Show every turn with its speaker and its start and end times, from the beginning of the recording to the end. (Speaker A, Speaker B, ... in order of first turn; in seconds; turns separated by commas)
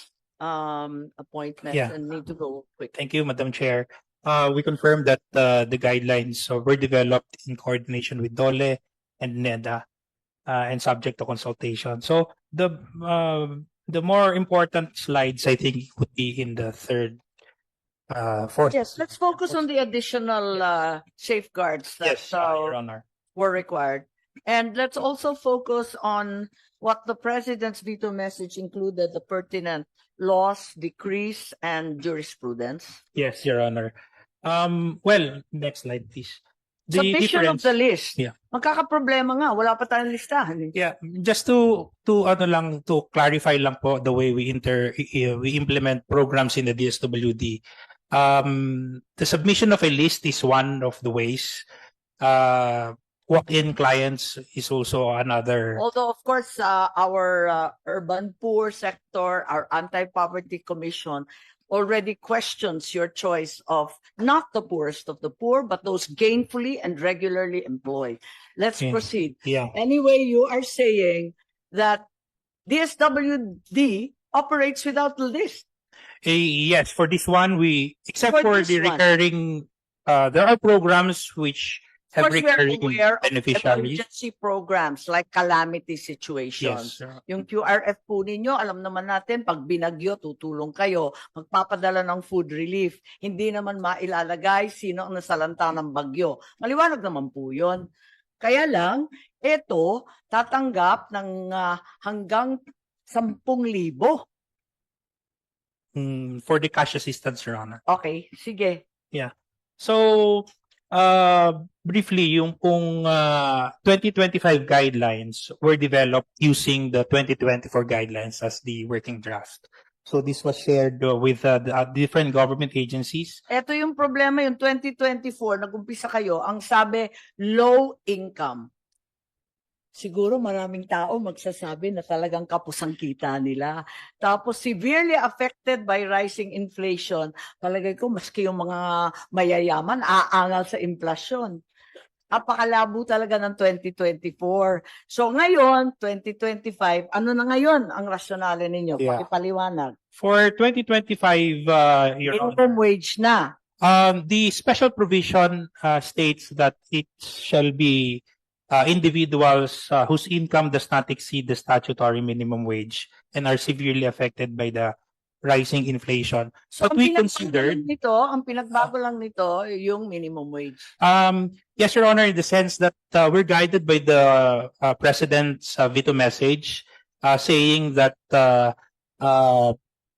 Speaker A: 0.4-2.9, Speaker B: 2.9-9.8, Speaker B: 10.5-17.2, Speaker B: 18.1-19.6, Speaker A: 18.7-22.8, Speaker B: 22.0-23.0, Speaker A: 23.4-33.0, Speaker B: 33.1-33.9, Speaker B: 34.4-38.3, Speaker A: 36.9-40.7, Speaker B: 40.8-47.6, Speaker B: 48.1-51.6, Speaker B: 52.2-55.8, Speaker A: 55.8-72.1, Speaker B: 68.8-69.7, Speaker A: 72.7-75.7, Speaker B: 76.2-84.0, Speaker A: 78.3-79.0, Speaker A: 82.2-97.8, Speaker B: 86.6-87.2, Speaker A: 98.4-104.2, Speaker B: 106.0-107.8, Speaker A: 107.9-108.8, Speaker B: 109.1-123.4, Speaker A: 123.5-128.7, Speaker A: 130.0-141.6, Speaker A: 142.3-149.9, Speaker B: 149.0-149.3, Speaker B: 150.2-152.8, Speaker A: 152.3-153.5, Speaker B: 153.8-158.2, Speaker B: 158.7-164.9, Speaker B: 165.4-167.9, Speaker A: 166.8-170.9, Speaker B: 171.0-179.8